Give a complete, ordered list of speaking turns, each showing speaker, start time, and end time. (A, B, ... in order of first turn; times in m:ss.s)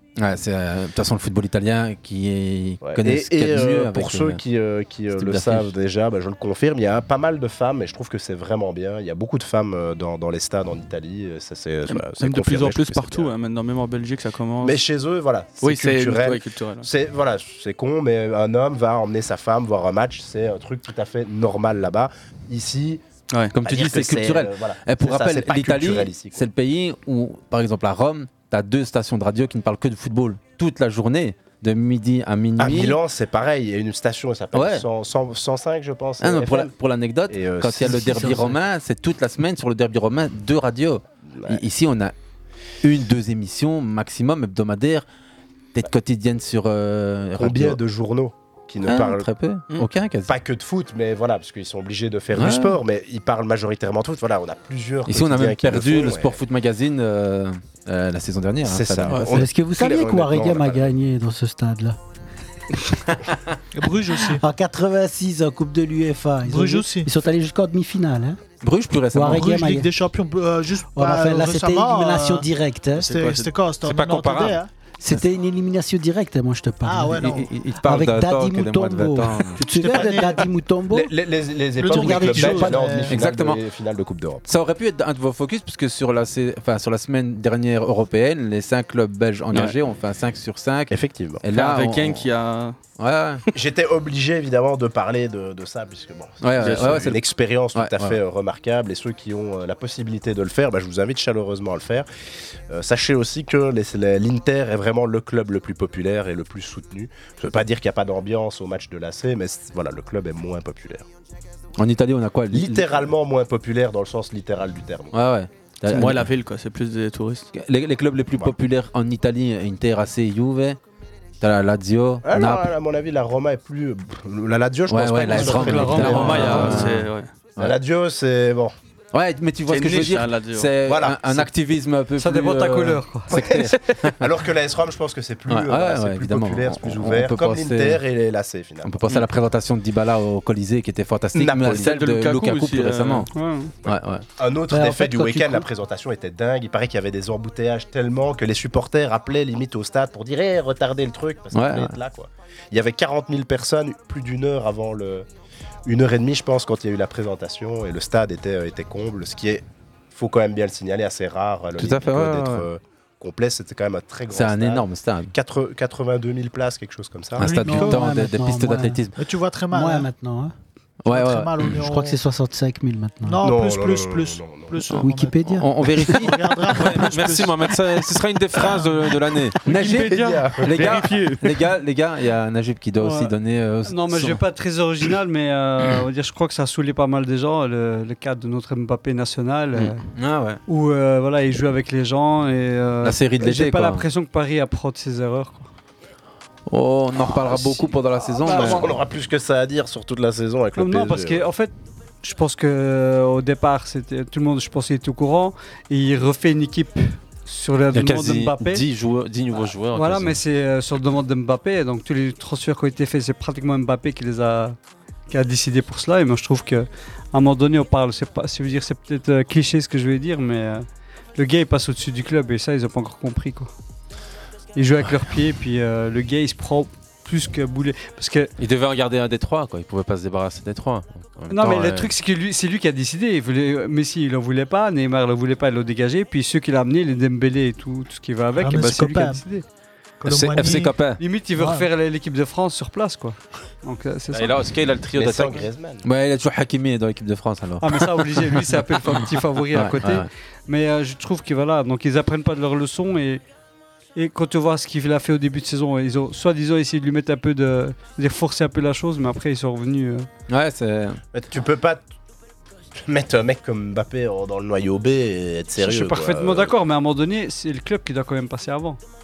0:00.2-0:04.4 A
0:02.8-0:13.3 B
0:05.1-0:05.7 A
0:11.9-0:14.8 C
0:14.6-0:23.0 B
0:15.6-0:16.9 C
0:23.5-0:33.0 A
0:23.6-0:26.5 B
0:32.6-0:36.7 B
0:34.5-0:34.9 A
0:36.2-0:42.1 A
0:37.3-0:38.5 B
0:37.8-0:38.6 D
0:41.3-0:41.6 B
0:42.8-0:45.1 A
0:45.7-0:47.8 A
0:47.4-0:49.3 B
0:48.8-0:50.4 A
0:50.3-0:56.4 B
0:52.4-0:52.8 A
0:55.1-0:59.4 A
0:58.6-1:00.9 B
0:59.3-1:02.0 D
1:03.7-1:04.4 E
1:04.3-1:08.4 D
1:06.4-1:07.1 E
1:08.6-1:09.4 A
1:09.1-1:09.9 D
1:09.2-1:12.5 E
1:11.0-1:13.1 D
1:13.0-1:13.5 C
1:13.1-1:14.7 E
1:13.9-1:14.6 F
1:15.0-1:21.1 D
1:16.8-1:17.5 E
1:17.2-1:19.6 A
1:19.7-1:20.5 E
1:20.9-1:24.5 B
1:21.8-1:23.2 E
1:21.8-1:23.0 D
1:23.1-1:23.6 A
1:24.5-1:32.2 A
1:30.9-1:31.4 B
1:31.5-1:32.8 C
1:33.0-1:33.4 A
1:33.5-1:42.1 B
1:36.4-1:37.2 A
1:36.6-1:37.0 C
1:37.7-1:38.2 A
1:42.7-1:51.0 B
1:51.8-1:53.0 A
1:52.5-1:55.2 B
1:55.1-1:56.3 A
1:55.9-1:57.5 C
1:57.5-2:00.8 A
2:01.4-2:02.7 A
2:02.2-2:06.8 B
2:04.9-2:07.8 A
2:05.3-2:06.9 G
2:06.0-2:07.3 C
2:07.6-2:08.8 B
2:09.1-2:14.2 A
2:09.7-2:10.7 C
2:10.8-2:11.5 B
2:12.2-2:13.3 G
2:13.3-2:19.0 B
2:15.5-2:18.0 A
2:18.8-2:23.3 A
2:21.4-2:21.9 B
2:21.7-2:23.3 C
2:23.3-2:23.7 G
2:23.8-2:24.2 A
2:23.9-2:35.3 B
2:24.7-2:25.7 D
2:31.5-2:31.9 A
2:35.9-2:47.5 B
2:41.8-2:42.7 A
2:44.3-2:45.3 A
2:47.4-2:49.1 A
2:47.4-2:48.0 E
2:47.5-2:49.0 D
2:49.2-2:50.1 E
2:49.7-2:50.5 D
2:51.1-2:51.7 A
2:51.1-2:52.2 E
2:51.6-2:53.4 D
2:53.2-2:58.0 E
2:53.4-2:55.0 B
2:55.0-2:56.1 D
2:55.5-2:57.2 A
2:56.8-2:59.5 F
2:58.6-3:04.4 A
2:59.6-3:01.4 C
2:59.8-3:01.0 B
3:03.0-3:03.3 G
3:03.8-3:10.0 G
3:10.2-3:10.6 A
3:10.7-3:15.7 G
3:13.0-3:14.0 A
3:16.7-3:19.0 A
3:17.6-3:21.5 B
3:20.8-3:28.8 G
3:27.9-3:30.4 F
3:29.9-3:34.8 G
3:35.3-3:43.7 G
3:44.8-3:48.5 G
3:48.6-3:52.1 F
3:51.5-3:59.6 G
3:58.6-3:59.4 E
4:00.2-4:01.0 E
4:00.3-4:01.2 F
4:00.5-4:00.8 A
4:01.2-4:04.6 G
4:01.6-4:01.9 E
4:04.3-4:05.5 F
4:05.1-4:06.0 B
4:06.0-4:08.5 A
4:07.8-4:13.4 G
4:09.7-4:10.3 A
4:14.2-4:20.3 G
4:20.5-4:21.2 A
4:21.3-4:22.0 B
4:23.1-4:26.7 B
4:25.8-4:29.0 G